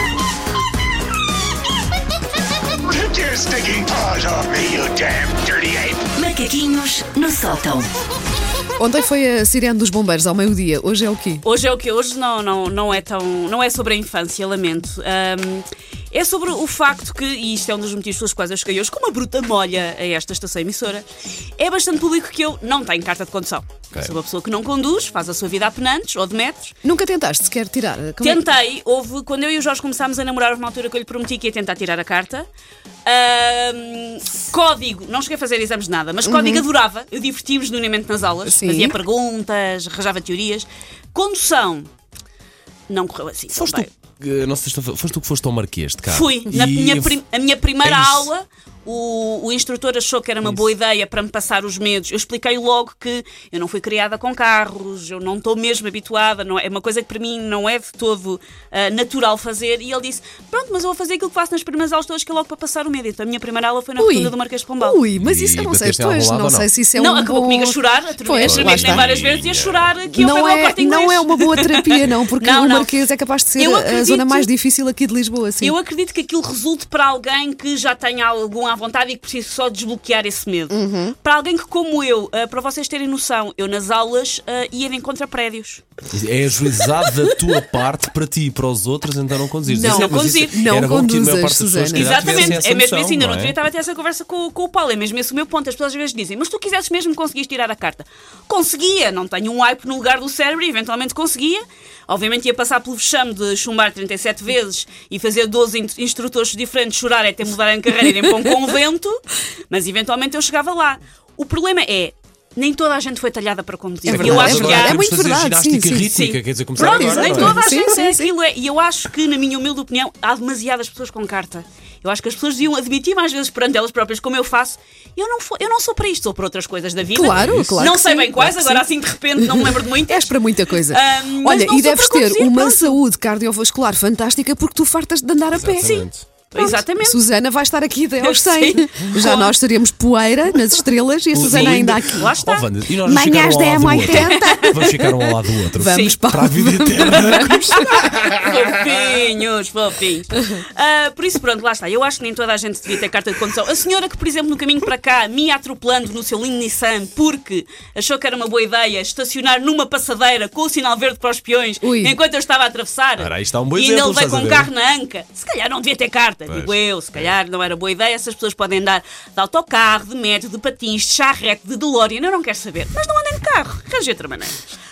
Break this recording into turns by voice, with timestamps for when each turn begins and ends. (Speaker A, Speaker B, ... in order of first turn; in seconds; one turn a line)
Speaker A: 2.9-6.1
Speaker B: 6.2-7.9
Speaker C: 8.8-11.4
Speaker D: 11.4-26.8
Speaker C: 26.8-28.4
Speaker D: 28.2-32.5
Speaker D: 33.1-41.9
Speaker C: 36.2-36.6
Speaker C: 38.5-39.0
Speaker D: 42.9-43.9
Speaker E: 43.5-47.2
Speaker D: 46.1-65.0
Speaker E: 47.8-48.3
Speaker C: 64.0-69.1
Speaker E: 65.2-66.7
Speaker D: 67.0-73.0
Speaker E: 68.4-70.0
Speaker C: 70.1-75.8
Speaker D: 73.6-74.5
Speaker D: 75.6-85.8
Speaker C: 80.7-81.2
Speaker E: 86.1-93.6
Speaker C: 89.7-92.6
Speaker D: 89.8-90.7
Speaker D: 91.9-115.0
Speaker C: 114.0-116.1
Speaker E: 114.1-117.8
Speaker D: 116.1-133.0
Speaker C: 116.8-118.3
Speaker C: 127.1-135.9
Speaker E: 127.2-127.8
Speaker E: 135.5-136.2
Speaker D: 135.6-137.2
Speaker C: 136.6-142.4
Speaker D: 138.2-139.6
Speaker E: 141.3-148.6
Speaker D: 141.4-142.8
Speaker C: 143.1-148.2
Speaker B: 143.2-144.2
Speaker D: 144.1-145.0
Speaker D: 145.8-146.2
Speaker D: 147.0-174.6
Speaker C: 161.8-162.2
Speaker E: 163.2-164.7
Speaker E: 166.5-167.3